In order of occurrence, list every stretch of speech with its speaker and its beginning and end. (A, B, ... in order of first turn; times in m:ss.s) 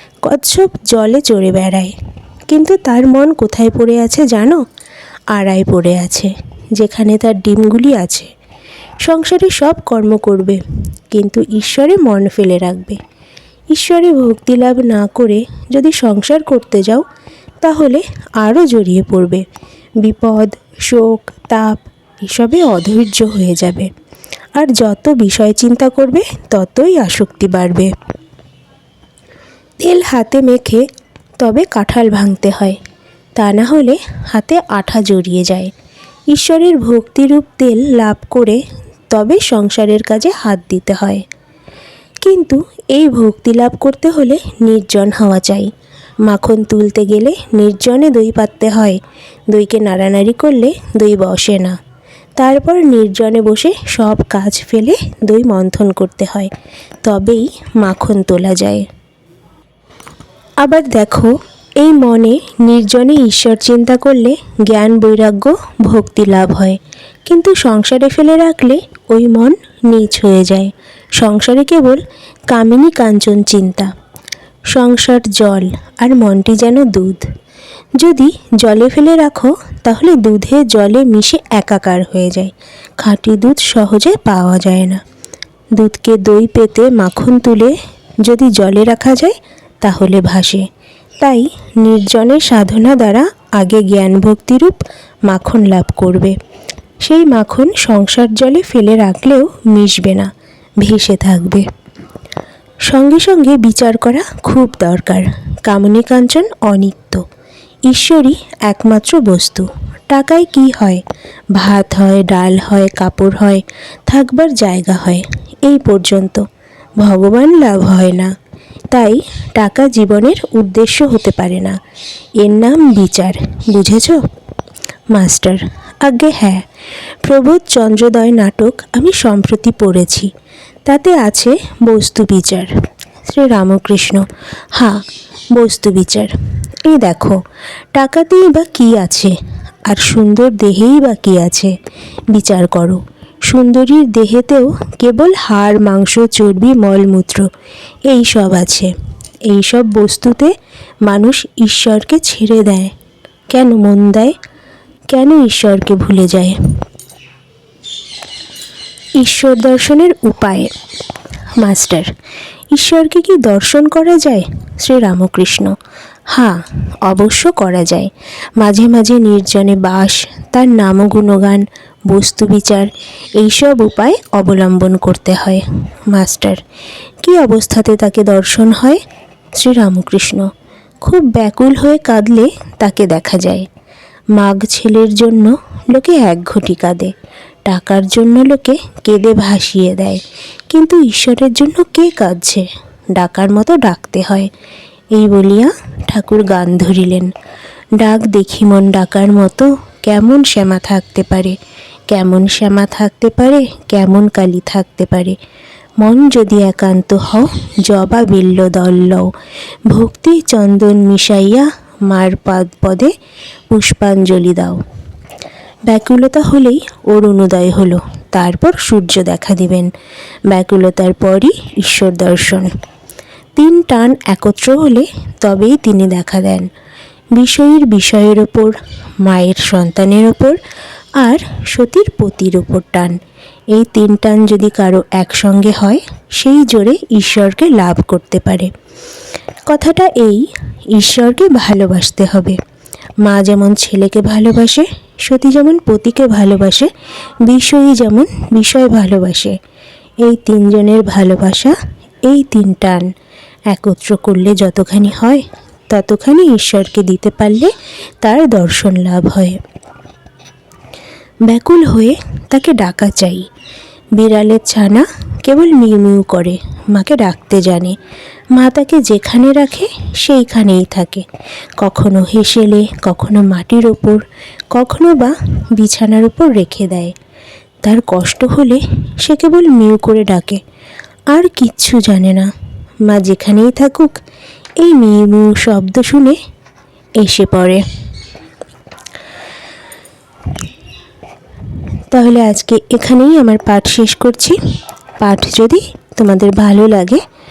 0:00.2-0:01.9 A
0:02.5-0:04.6 A
0:05.3-0:08.3 A
0:09.0-0:10.6 A
0:11.1-0:13.0 A
0:13.7-0:17.0 A
0:17.6-0:19.4 A
0:20.0-0:23.9 A
0:24.6-0:27.9 A
0:29.8-0:30.8 A
0:31.4-0:32.8 A
0:33.4-0:35.7 A
0:36.3-0:38.6 A
0:39.1-0:41.2 A
0:42.2-0:45.7 A
0:46.2-0:49.0 A
0:49.5-0:51.8 A
0:52.4-0:56.5 A
0:57.0-0:58.8 A
1:00.6-1:13.9 A
1:14.7-1:17.2 A
1:18.0-1:25.0 A
1:25.8-1:30.7 A
1:31.2-1:36.3 A
1:37.0-1:40.3 A
1:40.8-1:41.6 A
1:42.9-1:47.2 A
1:47.9-1:51.0 A
1:51.5-1:56.4 A
1:57.0-1:58.3 A
1:58.9-2:01.8 A
2:02.4-2:04.2 A
2:05.1-2:06.6 A
2:07.2-2:10.3 A
2:10.9-2:12.7 A
2:13.2-2:14.2 A
2:14.7-2:16.3 A
2:16.8-2:17.4 A
2:17.9-2:19.3 A
2:19.9-2:21.7 A
2:22.3-2:27.5 A
2:28.1-2:28.9 A
2:29.5-2:30.5 A
2:31.0-2:32.9 A
2:33.5-2:34.3 A
2:35.1-2:36.5 A
2:39.2-2:40.7 A
2:41.6-2:42.1 A
2:42.7-2:45.7 A
2:46.3-2:56.6 A
2:57.2-2:59.0 A
2:59.6-3:00.5 A
3:01.0-3:03.7 A
3:04.3-3:07.1 A
3:07.7-3:14.5 A
3:15.1-3:17.3 A
3:18.0-3:21.6 A
3:22.1-3:25.4 A
3:26.0-3:29.3 A
3:29.9-3:33.1 A
3:33.7-3:34.8 A
3:35.9-3:39.9 A
3:40.5-3:42.7 A
3:43.6-3:46.7 A
3:47.3-3:50.6 A
3:51.2-3:53.2 A
3:53.7-3:58.7 A
3:59.7-4:02.6 A
4:03.2-4:06.9 A
4:07.4-4:09.6 A
4:10.2-4:11.7 A
4:12.2-4:13.1 A
4:13.7-4:19.6 A
4:21.5-4:23.5 A
4:24.2-4:28.0 A
4:28.5-4:31.2 A
4:31.8-4:37.1 A
4:37.8-4:40.6 A
4:41.3-4:42.5 A
4:43.1-4:44.1 A
4:44.8-4:46.4 A
4:47.2-4:47.8 A
4:52.1-4:54.6 A
4:55.2-4:57.2 A